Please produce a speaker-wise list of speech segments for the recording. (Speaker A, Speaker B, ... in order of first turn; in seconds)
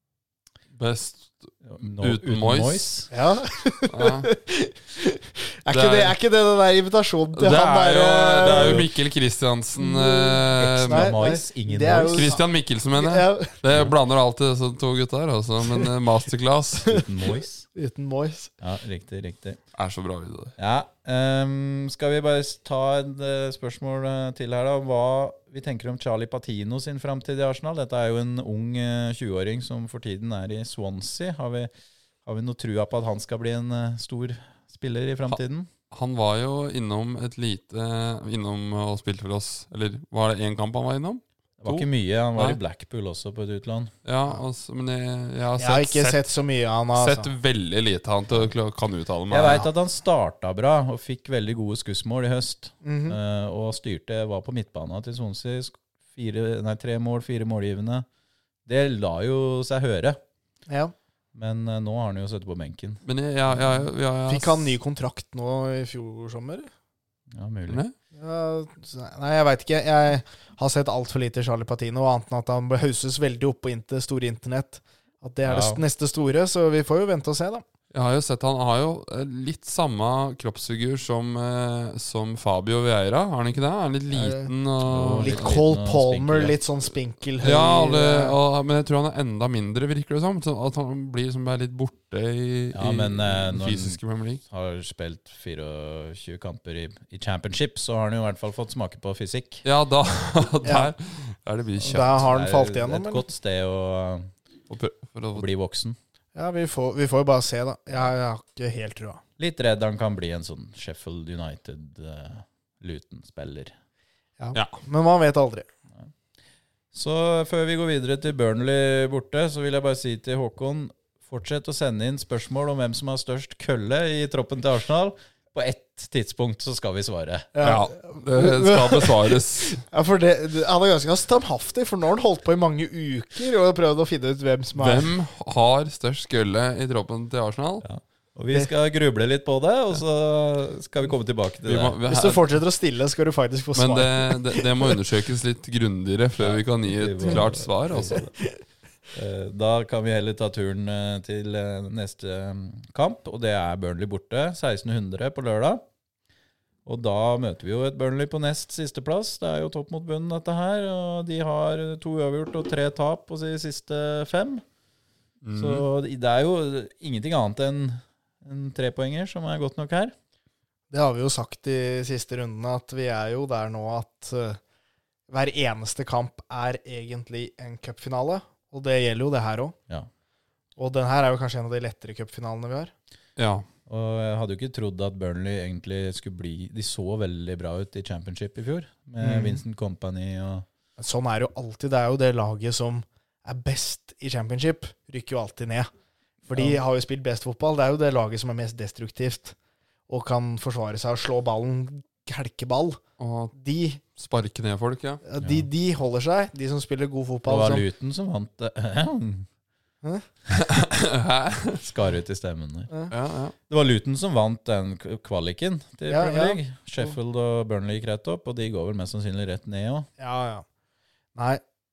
Speaker A: 0.7-2.9, 3.9-4.3, 5.7-6.1, 7.3-11.1, 12.1-16.9, 19.7-20.5, 35.9-42.6, 44.0-46.3, 46.9-49.7, 63.0-64.7, 67.7-67.9, 77.9-85.6, 87.4-94.4, 99.6-102.3, 104.7-105.5, 114.5-114.8, 127.6-129.8, 134.8-137.8, 141.6-142.5, 143.7-148.2, 165.4-165.8, 183.4-183.6, 203.2-203.5, 204.1-205.2, 210.5-211.8, 213.1-213.5
Speaker B: 1.6-3.1, 8.4-8.9, 10.6-12.3, 16.9-17.6, 18.6-19.6, 20.6-31.7, 32.2-35.7, 41.6-43.9, 49.3-58.0, 58.7-60.2, 61.3-63.0, 67.3-67.8, 75.4-75.8, 84.8-86.6, 92.7-99.6, 101.9-104.3, 105.3-106.0, 109.4-113.7, 116.9-127.5, 137.8-142.0, 146.4-148.3, 149.1-155.8, 156.8-164.6, 165.5-170.1, 183.9-190.6, 196.5-196.8, 205.4-205.7, 207.5-209.5, 211.8-212.9, 213.7-220.1
Speaker C: 3.1-8.7, 9.8-12.4, 12.9-13.6, 17.7-18.5, 45.6-47.3, 52.8-53.2, 60.7-60.9, 64.3-66.7, 68.1-77.6, 84.1-84.5, 85.2-88.3, 100.6-100.9, 101.9-103.2, 106.3-109.2, 114.4-115.7, 127.5-135.1, 142.1-145.0, 170.9-174.6, 175.3-179.8, 180.8-182.9, 189.2-189.6, 191.0-195.9, 196.4-199.5, 200.1-203.0, 203.5-204.0, 205.2-207.8, 216.1-217.1, 220.2-220.6, 221.3-221.6